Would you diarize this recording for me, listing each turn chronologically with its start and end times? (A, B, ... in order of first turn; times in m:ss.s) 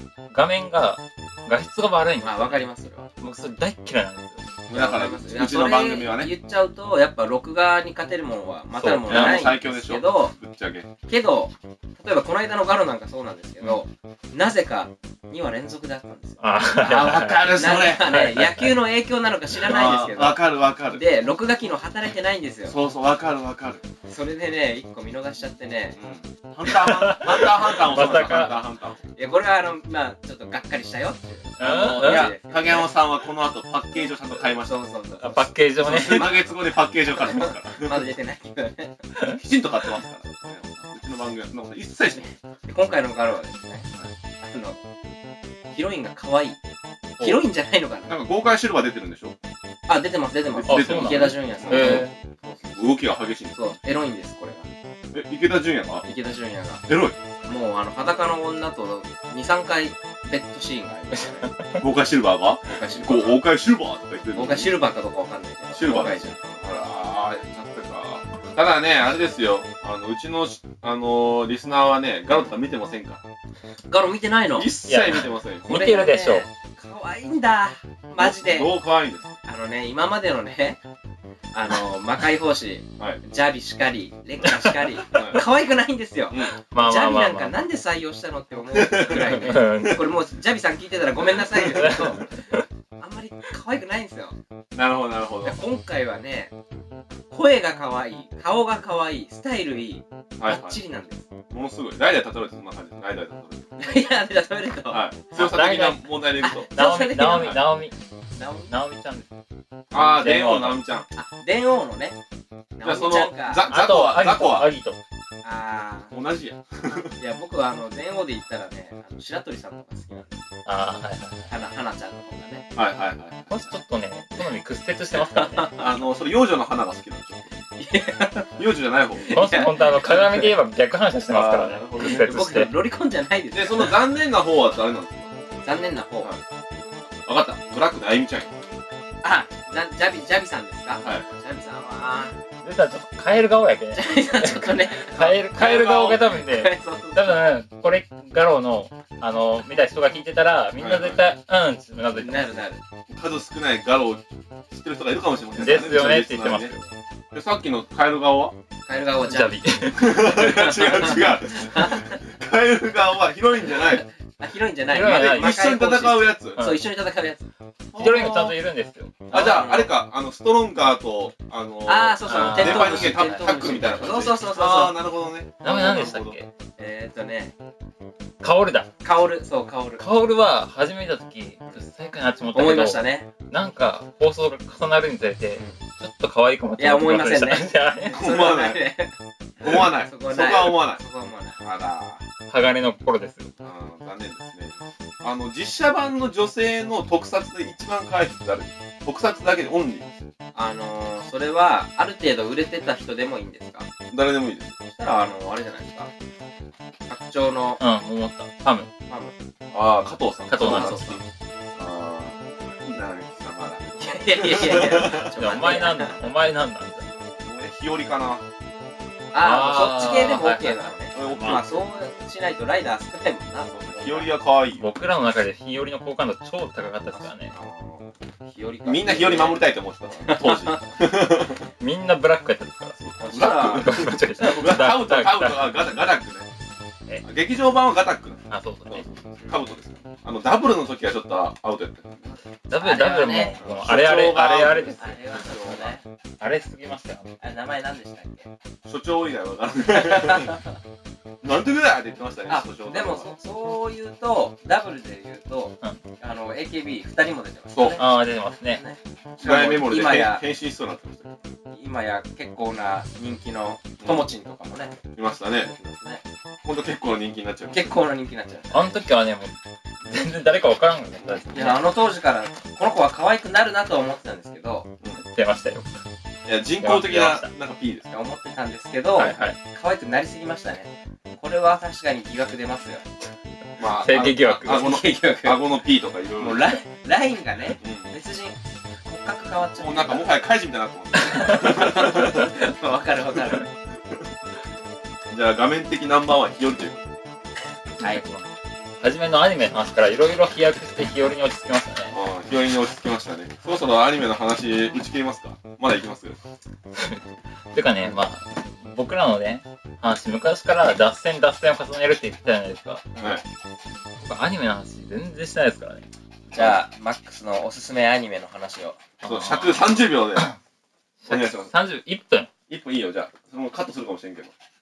0:00.3-0:02.6 A
0:02.2-0:03.1 B
0:03.2-0:04.4 A
0:04.7-0:06.3 C
0:04.7-0:10.4 B
0:08.8-0:09.6 A
0:09.1-0:10.9 C
0:11.1-0:20.4 B
0:16.4-0:18.8 A
0:16.8-0:18.1 C
0:19.6-0:21.1 C
0:20.9-0:22.8 B
0:22.7-0:23.8 C
0:24.1-0:26.0 B
0:26.0-0:29.0 C
0:26.7-0:28.6 A
0:29.2-0:32.9 B
0:31.6-0:32.3 A
0:31.6-0:34.8 C
0:34.4-0:35.5 B
0:35.2-0:36.4 A
0:35.8-0:38.0 C
0:37.2-0:39.0 B
0:39.3-0:42.3 C
0:42.7-0:43.9 B
0:44.4-0:44.8 B
0:45.7-0:46.6 B
0:47.2-0:48.1 B
0:48.1-0:49.4 C
0:49.9-0:52.8 B
0:50.5-0:52.1 C
0:50.6-0:52.1 A
0:52.6-0:53.7 C
0:53.6-0:54.7 B
0:55.1-0:56.1 C
0:56.0-0:56.8 B
0:56.9-0:57.2 C
0:57.4-1:01.5 B
1:01.8-1:04.7 C
1:02.6-1:03.4 B
1:04.4-1:06.6 B
1:05.8-1:13.2 C
1:13.9-1:14.7 B
1:14.6-1:15.7 C
1:14.9-1:16.5 A
1:15.6-1:18.8 B
1:18.2-1:19.3 C
1:19.4-1:20.8 B
1:21.5-1:32.3 B
1:25.1-1:25.4 C
1:26.3-1:26.6 C
1:26.6-1:27.6 A
1:28.7-1:29.5 C
1:29.2-1:30.1 A
1:31.5-1:32.6 A
1:33.0-1:34.4 B
1:34.7-1:35.6 C
1:35.4-1:36.5 B
1:37.3-1:41.3 B
1:40.4-1:40.8 C
1:41.5-1:43.8 C
1:43.8-1:45.1 B
1:44.9-1:46.7 C
1:45.4-1:47.9 A
1:46.4-1:47.6 B
1:48.4-1:48.7 B
1:48.7-1:49.3 A
1:49.9-1:51.1 C
1:49.9-1:50.8 A
1:51.2-1:52.2 B
1:52.8-1:53.6 B
1:52.8-1:54.7 C
1:53.7-1:55.0 A
1:55.4-1:56.1 B
1:56.1-1:57.1 C
1:57.2-2:00.5 B
2:00.7-2:01.5 A
2:01.5-2:02.7 B
2:02.8-2:03.7 C
2:03.5-2:05.8 A
2:05.1-2:05.9 B
2:05.8-2:07.6 C
2:07.8-2:08.6 B
2:08.6-2:09.3 C
2:09.2-2:10.5 B
2:09.3-2:12.8 A
2:11.3-2:12.6 C
2:12.0-2:14.0 B
2:13.5-2:15.3 C
2:15.6-2:16.3 B
2:17.3-2:18.6 C
2:19.2-2:22.4 B
2:22.6-2:32.7 A
2:24.0-2:25.4 B
2:25.4-2:26.2 C
2:26.3-2:27.5 B
2:30.8-2:31.2 C
2:32.1-2:32.8 B
2:33.1-2:36.7 C
2:35.6-2:36.9 A
2:37.3-2:38.6 C
2:38.9-2:42.2 B
2:39.2-2:40.2 A
2:39.9-2:44.1 C
2:43.7-2:47.5 B
2:44.9-2:45.7 A
2:45.0-2:46.6 C
2:46.6-2:46.8 A
2:47.9-2:48.6 C
2:48.0-2:49.3 A
2:49.3-2:56.4 C
2:49.3-2:49.9 B
2:51.9-2:55.0 B
2:52.3-2:53.9 A
2:55.6-2:56.5 A
2:56.8-2:57.5 B
2:58.4-2:58.9 A
2:59.0-3:00.0 B
3:00.0-3:08.3 A
3:02.5-3:03.3 B
3:06.8-3:09.1 B
3:08.1-3:08.8 C
3:09.6-3:11.0 C
3:09.6-3:11.6 B
3:11.6-3:12.2 C
3:12.5-3:13.5 A
3:13.6-3:20.2 C
3:20.6-3:23.9 B
3:24.1-3:24.8 C
3:24.9-3:26.1 B
3:27.1-3:27.8 B
3:27.8-3:28.9 A
3:29.1-3:29.4 B
3:29.7-3:31.2 C
3:30.5-3:31.2 A
3:30.6-3:31.2 B
3:31.8-3:35.3 C
3:34.0-3:36.2 B
3:35.1-3:37.1 A
3:37.4-3:38.4 C
3:39.3-3:44.3 B
3:39.4-3:41.7 A
3:41.1-3:41.8 C
3:43.7-3:45.0 C
3:44.8-3:47.5 A
3:47.1-3:49.7 B
3:48.8-3:51.6 C
3:50.2-3:50.9 B
3:51.8-3:55.8 A
3:53.0-3:56.5 C
3:53.2-3:53.9 B
3:57.2-4:02.4 C
3:58.5-3:59.0 A
4:02.7-4:05.2 A
4:02.8-4:03.6 B
4:03.6-4:05.9 C
4:05.0-4:06.1 B
4:06.4-4:07.4 A
4:07.4-4:08.5 B
4:08.9-4:10.6 C
4:09.9-4:10.8 B
4:11.4-4:13.3 C
4:12.5-4:18.1 B
4:17.7-4:18.0 C
4:18.0-4:18.8 A
4:18.7-4:20.4 B
4:19.4-4:21.4 C
4:21.7-4:25.0 B
4:24.0-4:24.3 C
4:25.1-4:25.7 C
4:25.7-4:26.2 B
4:26.6-4:28.0 C
4:27.7-4:28.9 B
4:28.7-4:29.5 A
4:30.0-4:31.8 A
4:31.5-4:34.9 B
4:35.2-4:36.0 A
4:36.5-4:38.1 C
4:36.8-4:37.5 A
4:38.1-4:43.1 B
4:39.2-4:39.6 A
4:39.2-4:39.5 C
4:43.8-4:46.8 C
4:43.8-4:45.0 A
4:44.6-4:45.6 B
4:46.4-4:50.3 B
4:47.8-4:48.1 C
4:49.8-4:52.5 C
4:51.3-4:53.7 B
4:55.3-4:57.0 C
4:58.0-4:58.5 A
4:59.0-5:02.2 A
5:02.1-5:06.4 C
5:07.0-5:13.0 A
5:13.2-5:13.4 C
5:14.2-5:16.1 A
5:16.5-5:19.0 B
5:19.2-5:20.6 A
5:19.2-5:20.5 C
5:21.2-5:22.5 A
5:21.3-5:21.7 C
5:22.7-5:24.5 C